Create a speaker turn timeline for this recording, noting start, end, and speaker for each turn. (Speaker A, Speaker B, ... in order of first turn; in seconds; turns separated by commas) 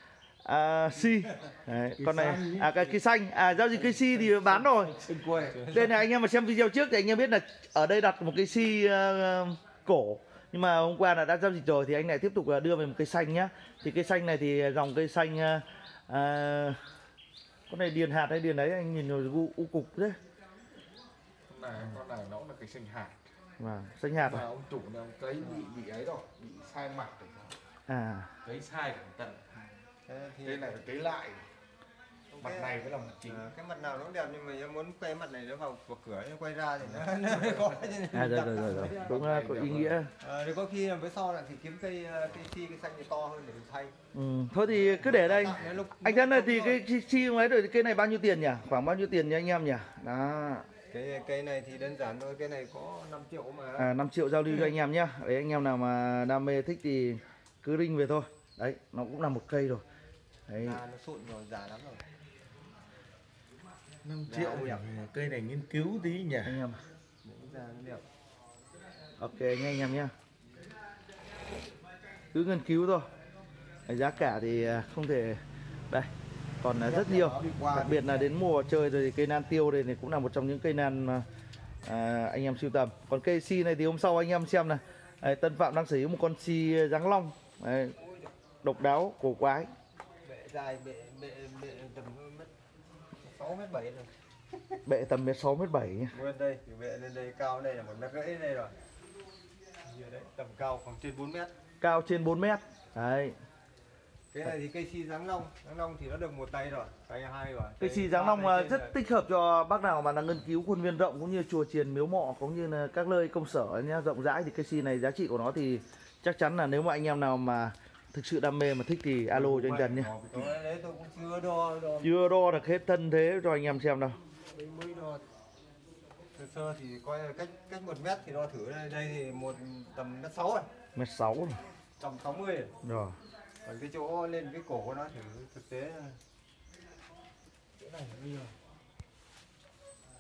Speaker A: 0.5-5.0, Speaker B: 2.0-2.9, Speaker B: 4.0-5.9, Speaker A: 5.7-16.8, Speaker A: 17.7-20.2, Speaker B: 21.5-23.2, Speaker A: 23.6-24.5, Speaker B: 24.2-27.6, Speaker A: 27.9-28.3, Speaker B: 28.4-29.4, Speaker C: 30.1-30.8, Speaker B: 30.4-31.4, Speaker C: 32.3-39.1, Speaker B: 32.4-33.4, Speaker A: 38.1-40.1, Speaker B: 38.9-40.0, Speaker C: 40.2-43.9, Speaker A: 44.1-50.7, Speaker C: 44.8-46.8, Speaker C: 50.9-53.9, Speaker A: 53.8-59.8, Speaker A: 60.5-60.8, Speaker C: 60.6-62.0, Speaker B: 64.0-66.6, Speaker C: 64.3-64.8, Speaker A: 66.4-66.8, Speaker C: 67.2-68.0, Speaker A: 69.2-70.1, Speaker A: 72.3-73.1, Speaker A: 73.9-76.1, Speaker A: 76.6-81.2, Speaker B: 76.8-78.1, Speaker C: 78.0-78.3, Speaker A: 81.8-88.0, Speaker C: 88.0-88.3, Speaker A: 88.6-89.7, Speaker C: 90.2-92.5, Speaker C: 93.2-94.1, Speaker A: 94.9-96.1, Speaker C: 96.1-98.7, Speaker C: 99.9-101.5, Speaker A: 101.8-103.4, Speaker C: 104.3-108.9, Speaker A: 107.8-120.1, Speaker C: 119.3-122.1, Speaker A: 122.0-124.2, Speaker C: 124.5-125.2, Speaker C: 126.4-130.7, Speaker A: 131.0-131.6, Speaker C: 132.0-132.7, Speaker A: 132.8-133.2, Speaker C: 133.7-136.2, Speaker C: 137.8-138.5